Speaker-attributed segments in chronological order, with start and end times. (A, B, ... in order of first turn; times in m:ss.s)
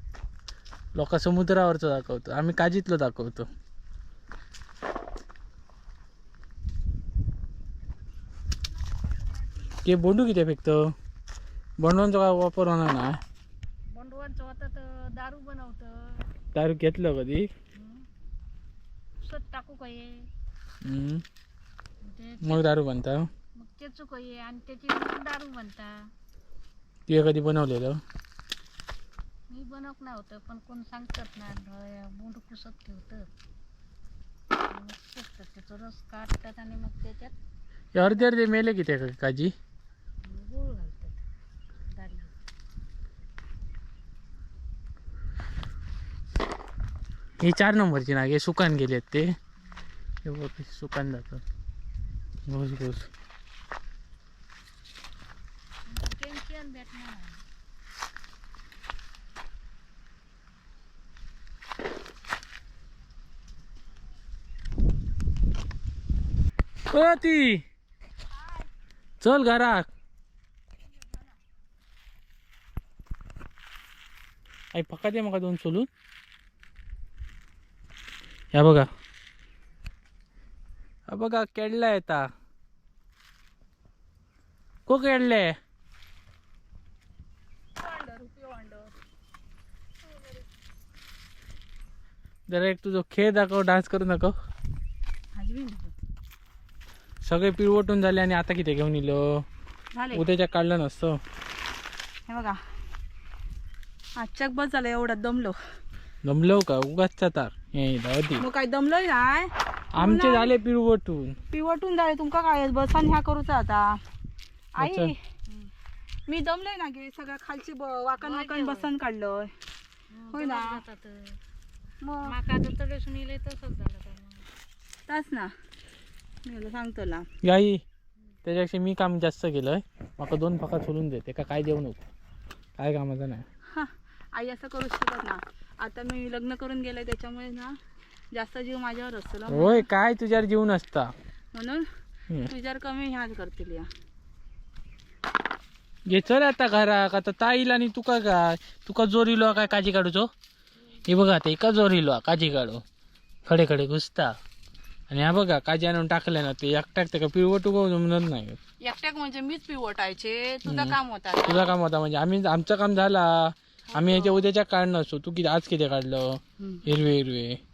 0:00.9-0:03.5 A
0:09.8-0:10.9 A
0:11.8-0:13.2 A
0:13.9-0:16.3 B
0:16.5-0:17.5 A
0:17.8-0:18.0 B
0:19.2-0:20.2 B
0:20.8-0:21.2 A
0:22.0-0:22.6 B
0:22.4-0:23.3 A
0:23.6-0:26.0 B
0:27.1-0:28.0 A
0:29.5-0:33.3 B
0:34.7-0:37.3 B
0:37.9-0:39.5 A
0:40.2-0:41.2 B
0:41.9-0:42.3 B
0:47.4-0:49.4 A
0:50.2-0:51.4 A
0:52.5-0:53.1 A
0:55.8-0:57.4 B
1:06.9-1:07.6 A
1:09.2-1:09.9 A
1:14.7-1:15.9 A
1:18.5-1:18.9 A
1:21.1-1:22.3 A
1:24.9-1:25.5 A
1:27.8-1:28.9 C
1:32.5-1:34.3 A
1:35.3-1:35.9 C
1:37.2-1:39.4 A
1:39.9-1:40.2 C
1:40.1-1:41.2 A
1:42.3-1:42.6 C
1:44.2-1:45.6 C
1:46.2-1:48.4 A
1:48.4-1:50.5 C
1:49.9-1:51.4 A
1:51.5-1:54.0 C
1:54.7-1:55.2 C
1:54.8-1:55.1 A
1:56.3-1:59.5 C
1:58.2-1:58.9 B
2:00.1-2:01.4 B
2:00.3-2:00.8 C
2:02.0-2:02.3 C
2:02.2-2:04.4 B
2:05.1-2:05.5 C
2:06.4-2:07.3 C
2:07.4-2:07.8 A
2:08.4-2:12.0 A
2:12.8-2:13.4 A
2:13.7-2:17.8 C
2:18.3-2:19.9 C
2:19.5-2:21.1 A
2:21.5-2:21.9 C
2:22.5-2:23.9 C
2:26.1-2:30.3 A
2:31.0-2:32.8 A
2:33.4-2:34.3 A
2:35.1-2:38.6 A
2:38.8-2:41.7 C
2:40.6-2:40.9 A
2:41.4-2:47.6 A
2:43.9-2:44.5 C